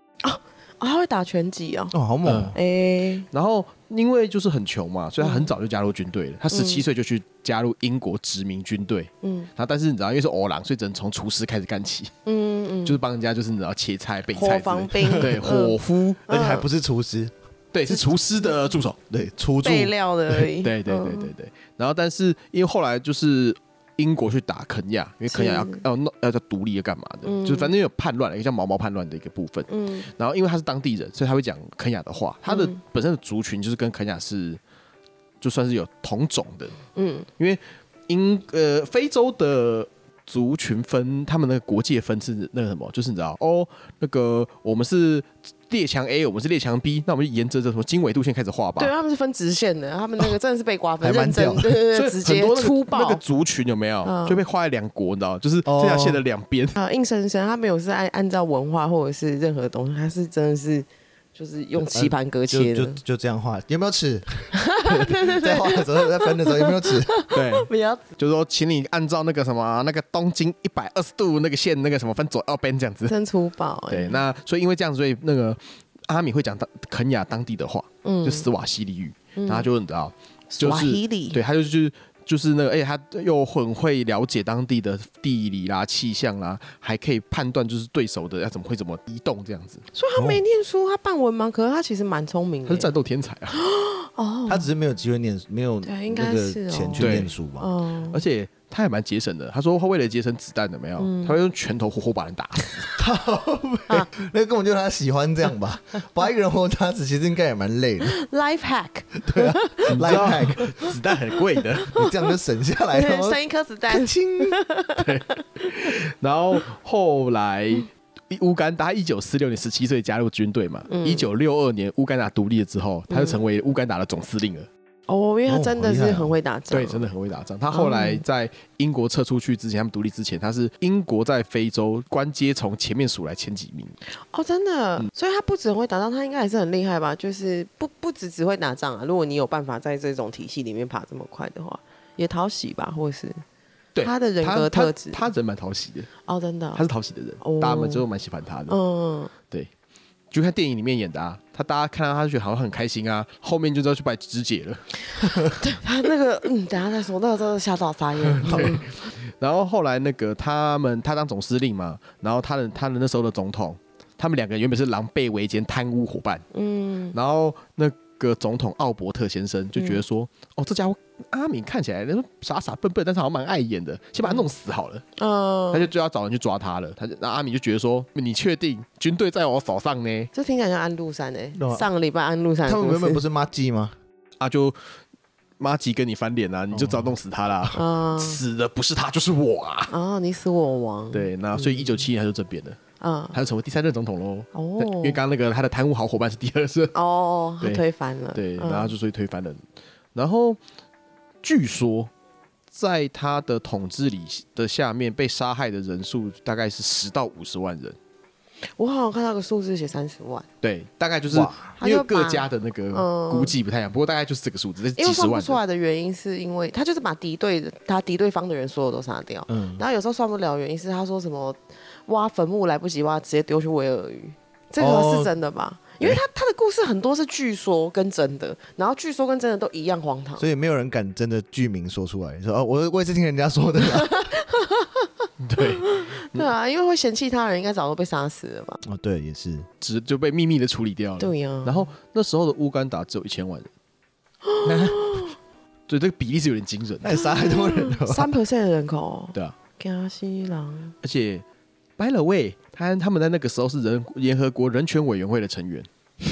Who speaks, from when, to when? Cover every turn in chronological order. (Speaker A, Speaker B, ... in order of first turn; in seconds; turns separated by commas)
Speaker A: 0.2-1.9, Speaker B: 1.9-2.6, Speaker C: 2.2-2.5, Speaker A: 2.5-3.3, Speaker C: 3.3-12.1, Speaker A: 5.2-5.5, Speaker A: 6.5-6.8, Speaker A: 9.2-9.5, Speaker A: 12.2-13.0, Speaker C: 12.8-16.2, Speaker A: 14.3-15.8, Speaker A: 16.3-16.7, Speaker B: 16.3-17.3, Speaker C: 17.7-19.0, Speaker B: 19.1-19.9, Speaker A: 19.6-21.3, Speaker C: 20.6-34.6, Speaker A: 25.3-25.8, Speaker A: 27.2-27.7, Speaker A: 29.7-30.1, Speaker A: 32.5-32.8, Speaker C: 35.4-36.8, Speaker A: 36.9-37.3, Speaker C: 37.4-48.9, Speaker A: 48.8-53.2, Speaker B: 51.0-51.8, Speaker C: 51.9-56.8, Speaker A: 54.0-54.4, Speaker B: 55.7-56.2, Speaker A: 56.8-63.0, Speaker B: 61.9-67.1, Speaker A: 64.5-68.0, Speaker C: 67.3-73.1, Speaker A: 73.1-74.2, Speaker C: 73.9-89.8, Speaker A: 78.0-78.5, Speaker A: 79.4-79.7, Speaker A: 80.5-81.4, Speaker A: 89.9-92.9, Speaker B: 90.2-90.4, Speaker C: 92.7-93.6, Speaker A: 93.5-94.7, Speaker B: 94.5-97.7, Speaker A: 95.8-98.2, Speaker C: 97.0-97.3, Speaker C: 98.1-102.9, Speaker A: 101.0-101.4, Speaker B: 103.0-108.1, Speaker A: 108.0-110.9, Speaker B: 109.2-110.8, Speaker C: 109.9-111.9, Speaker A: 111.6-112.3, Speaker B: 111.9-114.6, Speaker A: 112.9-115.9, Speaker C: 115.0-124.7, Speaker A: 120.9-121.3, Speaker A: 123.1-123.4, Speaker A: 125.1-127.1, Speaker B: 125.5-126.4, Speaker C: 126.7-134.0, Speaker A: 127.7-128.2, Speaker A: 134.2-143.4, Speaker C: 143.9-146.1, Speaker A: 144.0-145.3, Speaker A: 146.2-146.8, Speaker C: 146.8-148.8, Speaker A: 147.4-148.1, Speaker A: 148.7-149.3, Speaker C: 150.3-155.5, Speaker A: 155.4-159.0, Speaker C: 158.3-166.4, Speaker B: 158.4-158.8, Speaker A: 166.5-167.2, Speaker C: 167.1-175.1, Speaker A: 169.8-170.0, Speaker A: 175.2-175.9, Speaker C: 175.7-180.3, Speaker A: 180.3-183.2, Speaker B: 181.5-181.8, Speaker B: 182.6-184.0, Speaker C: 184.4-184.9, Speaker C: 185.6-189.9, Speaker B: 186.7-187.1, Speaker A: 187.7-188.4, Speaker A: 189.9-192.1, Speaker C: 191.1-192.8, Speaker A: 193.0-193.4, Speaker C: 193.3-197.0, Speaker A: 194.5-195.2, Speaker A: 196.9-198.9, Speaker C: 198.3-199.6, Speaker C: 200.1-200.6, Speaker C: 201.4-202.1, Speaker C: 202.7-208.0, Speaker A: 208.8-210.5, Speaker C: 210.6-215.6, Speaker B: 211.3-211.6, Speaker A: 211.8-213.5, Speaker A: 215.0-230.5, Speaker B: 219.5-219.8, Speaker B: 224.8-225.3, Speaker B: 230.4-234.3, Speaker A: 233.9-238.8, Speaker C: 235.4-236.5, Speaker B: 238.8-239.7, Speaker C: 239.8-243.7, Speaker A: 241.2-241.9, Speaker A: 244.5-245.3, Speaker B: 244.6-245.2, Speaker C: 245.9-247.1, Speaker B: 247.0-248.3, Speaker A: 247.1-250.9, Speaker C: 251.0-251.4, Speaker C: 252.0-255.9